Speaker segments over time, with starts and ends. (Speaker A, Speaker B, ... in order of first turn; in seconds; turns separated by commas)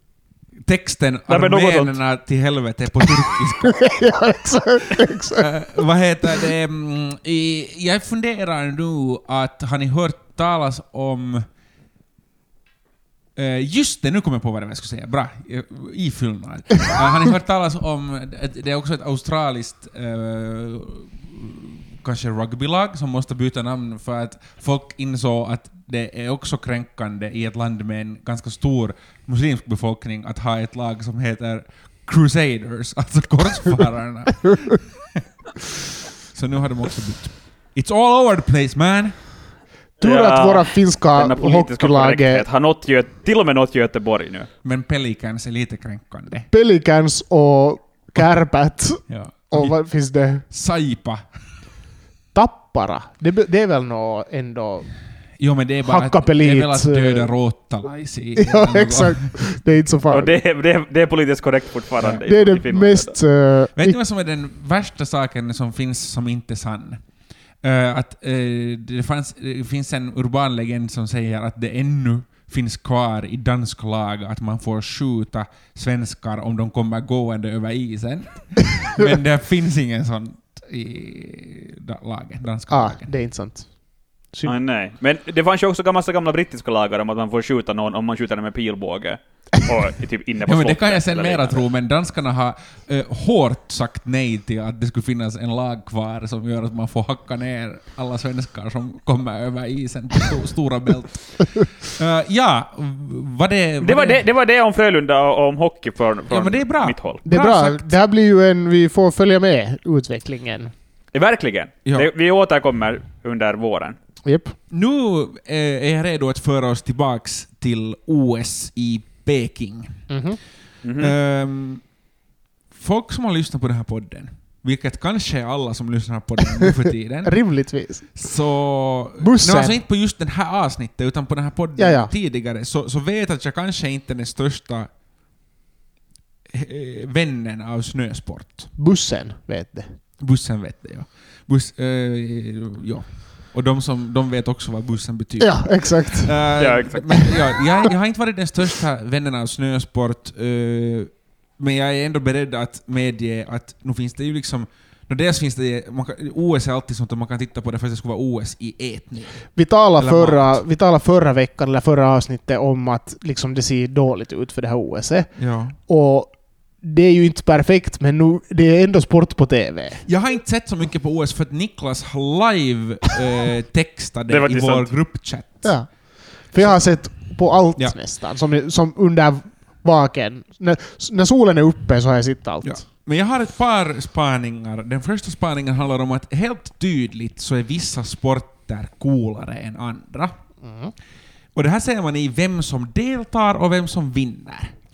Speaker A: 0.6-3.9, Speaker B: 1.3-2.0, Speaker C: 3.6-5.5, Speaker A: 5.4-11.4, Speaker A: 13.4-35.8, Speaker A: 36.3-39.2, Speaker B: 40.0-44.5, Speaker C: 40.0-42.4, Speaker A: 44.6-46.5, Speaker C: 46.5-50.4, Speaker A: 49.1-49.8, Speaker A: 50.5-51.2, Speaker C: 52.3-54.9, Speaker A: 55.4-59.6, Speaker C: 55.9-57.3, Speaker C: 58.4-60.4, Speaker B: 60.1-63.1, Speaker C: 62.2-64.0, Speaker A: 63.8-67.0, Speaker A: 67.6-83.1, Speaker C: 82.7-83.7, Speaker B: 84.4-91.6, Speaker A: 90.5-104.2, Speaker B: 103.8-107.2, Speaker A: 106.3-107.9, Speaker C: 107.3-110.7, Speaker B: 111.1-114.0, Speaker C: 114.2-114.5, Speaker A: 114.7-120.0, Speaker C: 120.1-120.4, Speaker B: 120.8-121.1, Speaker A: 121.0-121.8, Speaker A: 122.7-127.4, Speaker C: 126.6-128.1, Speaker A: 128.1-134.9, Speaker C: 129.2-129.8, Speaker C: 131.8-132.1, Speaker A: 136.5-138.7, Speaker C: 138.8-139.9, Speaker A: 140.2-160.6, Speaker C: 145.4-146.4, Speaker B: 146.6-147.2, Speaker C: 159.6-165.3, Speaker A: 165.4-165.8, Speaker C: 165.9-166.3, Speaker C: 166.8-170.0, Speaker A: 170.1-175.8, Speaker B: 174.3-174.9, Speaker C: 175.6-182.8, Speaker A: 182.6-190.3, Speaker C: 190.6-190.9, Speaker A: 191.6-194.7